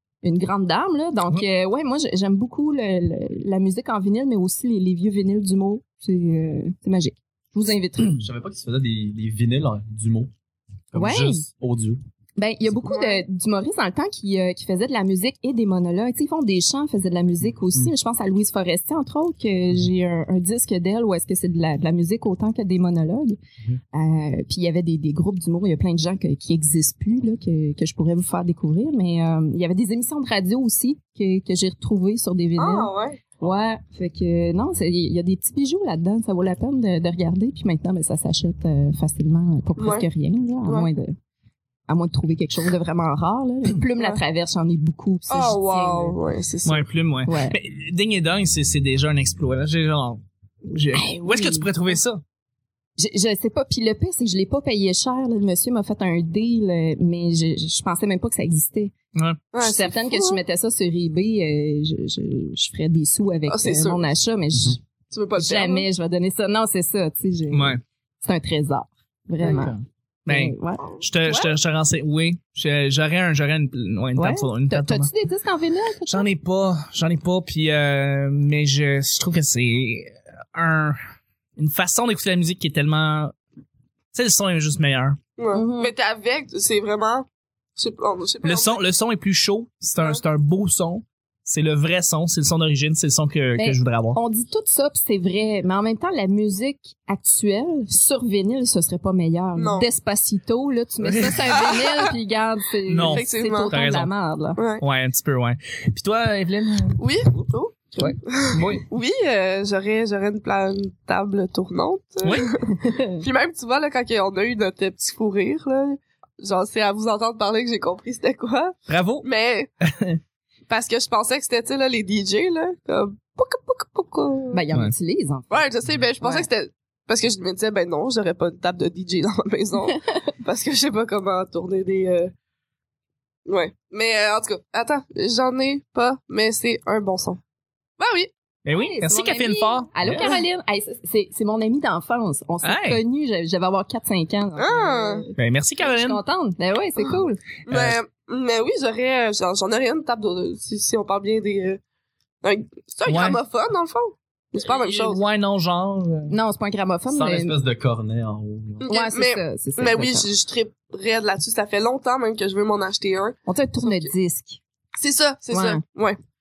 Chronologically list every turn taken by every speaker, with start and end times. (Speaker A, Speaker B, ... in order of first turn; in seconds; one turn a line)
Speaker A: 0.2-8.3
Speaker B: 8.2-10.3
Speaker B: 10.9-12.0
Speaker A: 10.9-11.4
Speaker A: 12.4-23.4
Speaker C: 12.8-13.2
Speaker A: 23.9-41.2
Speaker C: 32.6-33.2
Speaker C: 39.8-40.1
Speaker C: 40.6-40.9
Speaker A: 41.9-46.2
Speaker C: 44.0-44.2
Speaker C: 45.3-46.8
Speaker D: 46.6-52.2
Speaker A: 47.3-47.6
Speaker A: 50.9-51.7
Speaker A: 53.0-58.9
Speaker C: 59.5-60.4
Speaker A: 59.6-64.8
Speaker C: 63.5-64.0
Speaker C: 65.1-65.9
Speaker A: 65.4-69.7
Speaker D: 67.5-67.8
Speaker D: 69.4-75.1
Speaker C: 69.5-69.7
Speaker A: 70.3-70.9
Speaker C: 70.9-71.5
Speaker A: 74.2-76.3
Speaker D: 76.1-81.0
Speaker D: 81.6-83.3
Speaker D: 84.1-85.2
Speaker C: 85.4-88.8
Speaker A: 85.5-85.9
Speaker D: 88.4-94.2
Speaker A: 93.6-104.6
Speaker C: 99.6-99.9
Speaker D: 101.0-101.5
Speaker C: 101.5-102.1
Speaker D: 102.9-104.1
Speaker C: 103.0-103.8
Speaker C: 104.6-104.8
Speaker D: 104.8-107.0
Speaker C: 107.0-119.7
Speaker D: 108.0-108.9
Speaker D: 112.2-112.5
Speaker A: 112.8-113.1
Speaker D: 118.9-119.3
Speaker D: 119.8-120.2
Speaker C: 120.7-124.7
Speaker A: 124.5-125.6
Speaker C: 125.5-132.3
Speaker A: 126.2-126.5
Speaker C: 133.5-137.4
Speaker C: 138.0-138.3
Speaker D: 138.7-139.9
Speaker A: 138.7-147.4
Speaker B: 140.0-140.3
Speaker D: 142.6-143.0
Speaker C: 144.6-145.3
Speaker D: 145.4-146.2
Speaker C: 147.7-151.8
Speaker D: 147.7-148.0
Speaker C: 152.4-155.2
Speaker D: 153.1-153.4
Speaker D: 154.6-156.4
Speaker A: 156.3-157.6
Speaker B: 157.1-158.9
Speaker C: 158.8-164.1
Speaker A: 158.9-160.3
Speaker A: 163.5-164.6
Speaker C: 165.0-166.2
Speaker A: 165.5-165.8